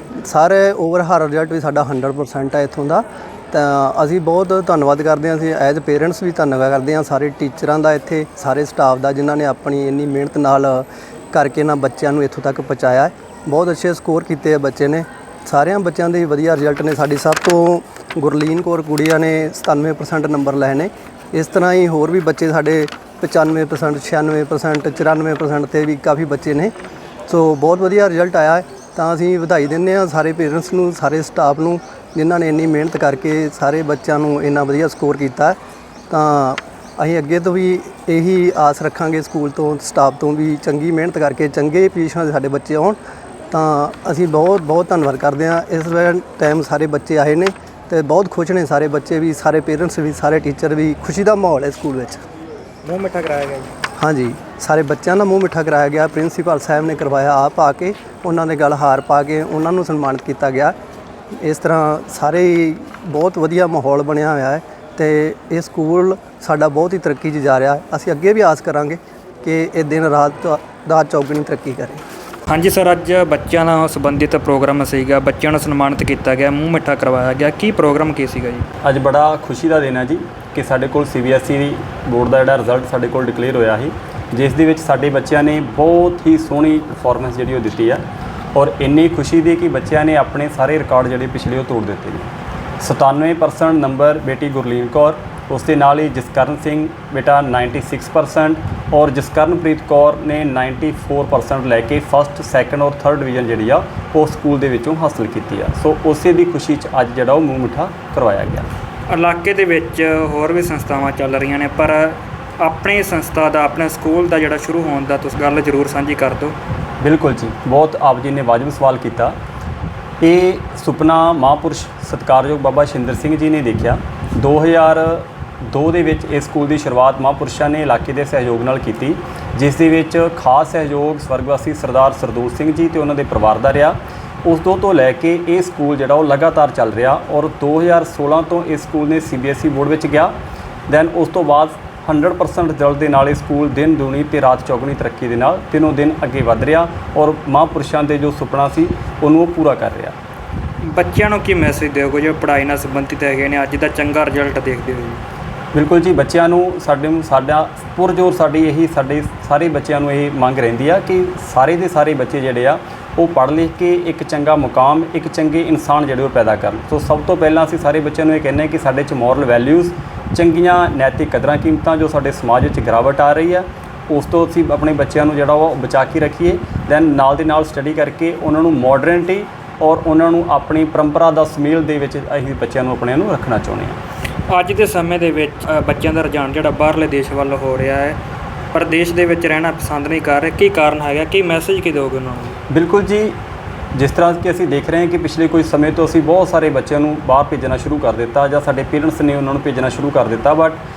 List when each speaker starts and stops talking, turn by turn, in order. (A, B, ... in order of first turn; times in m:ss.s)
0:00.3-0:26.7 A
0:27.3-0:35.6 A
0:36.1-0:43.0 A
0:43.5-0:52.2 A
0:52.8-0:53.7 B
0:54.0-1:00.7 A
1:01.4-1:12.0 A
1:12.5-1:18.6 B
1:18.8-1:28.0 C
1:28.5-1:48.7 C
1:49.1-1:56.6 B
1:57.0-1:59.4 C
2:00.2-2:20.3 C
2:20.9-2:30.2 C
2:30.9-2:35.2 B
2:35.7-3:04.0 C
3:04.5-3:08.2 B
3:08.7-3:12.6 B
3:12.7-3:13.4 C
3:13.9-3:20.8 C